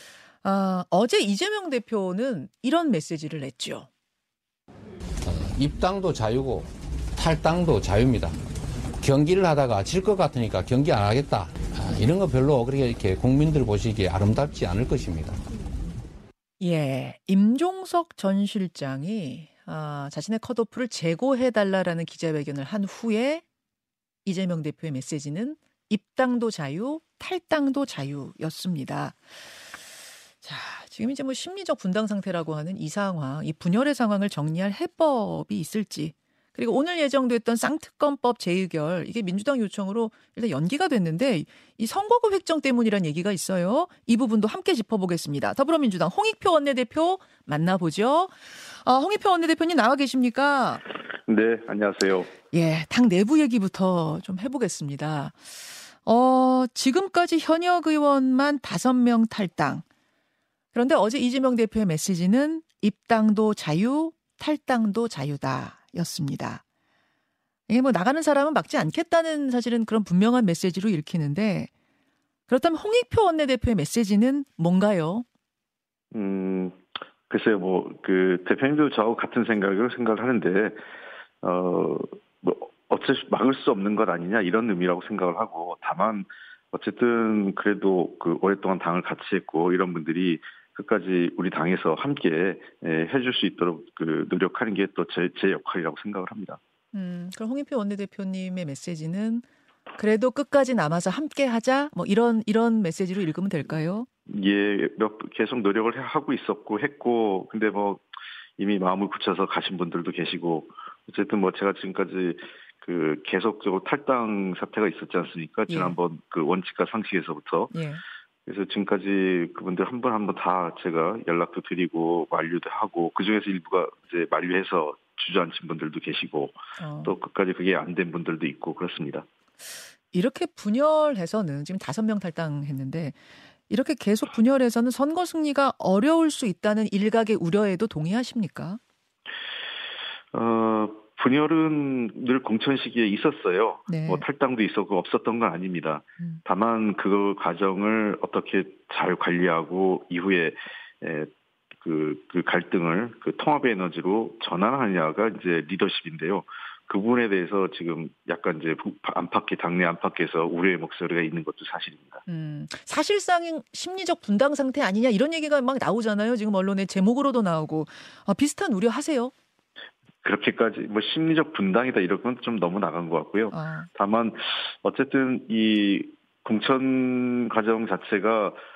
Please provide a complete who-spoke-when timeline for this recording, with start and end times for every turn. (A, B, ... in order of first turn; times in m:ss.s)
0:00.4-0:03.9 A
0:05.2-0:08.3 B
0:09.0-0:15.4 B
0:16.6-0:23.4 A
0:24.2-0:29.2 A
0:30.4-0:50.8 A
0:51.2-0:52.3 C
0:52.5-0:59.8 A
1:00.7-1:06.6 A
1:07.7-1:11.7 A
1:12.5-1:15.2 A
1:16.1-1:20.8 C
1:21.4-1:36.6 C
1:36.9-1:39.4 A
1:40.0-1:44.1 A
1:44.3-1:48.0 C
1:48.6-1:57.7 C
1:55.7-1:56.0 A
1:57.7-1:58.0 A
1:58.4-2:09.3 C
2:06.8-2:07.1 A
2:10.1-2:13.2 A
2:13.7-2:18.8 A
2:20.3-2:42.2 C
2:23.9-2:24.2 A
2:42.3-2:49.3 A
2:50.2-2:58.6 C
2:53.5-2:53.9 A